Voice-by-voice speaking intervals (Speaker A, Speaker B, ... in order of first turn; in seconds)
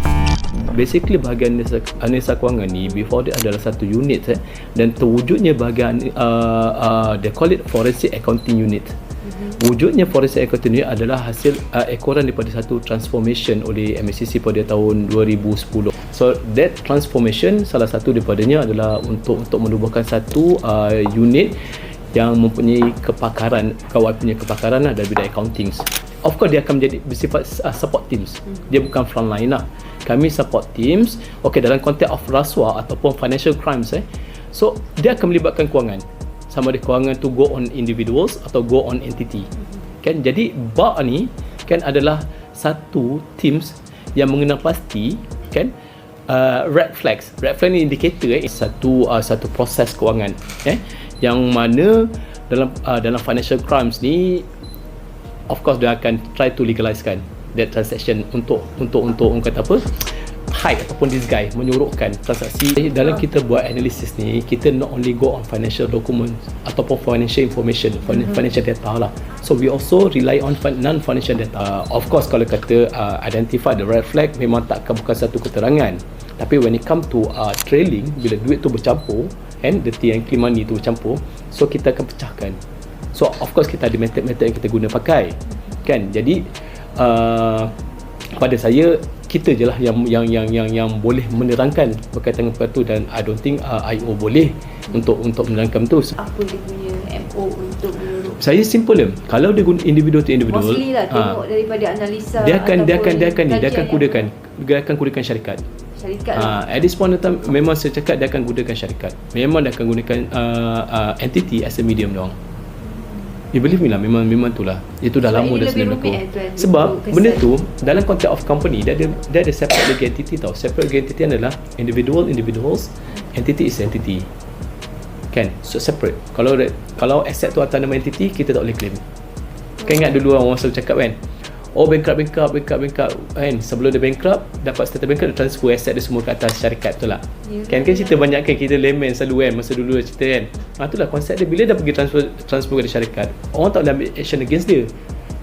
Speaker A: 0.5-21.6, 22.1-39.5, 40.0-45.7, 46.3-54.5, 55.5-82.6, 83.1-87.7, 88.3-96.2, 98.3-101.3, 102.4-105.6, 106.3-112.3, 113.5-124.3, 125.3-129.0, 129.8-144.9
Speaker B: 96.2-98.4, 100.5-104.3, 106.0-106.6, 112.8-113.3, 115.2-117.5, 129.8-130.1, 137.4-138.4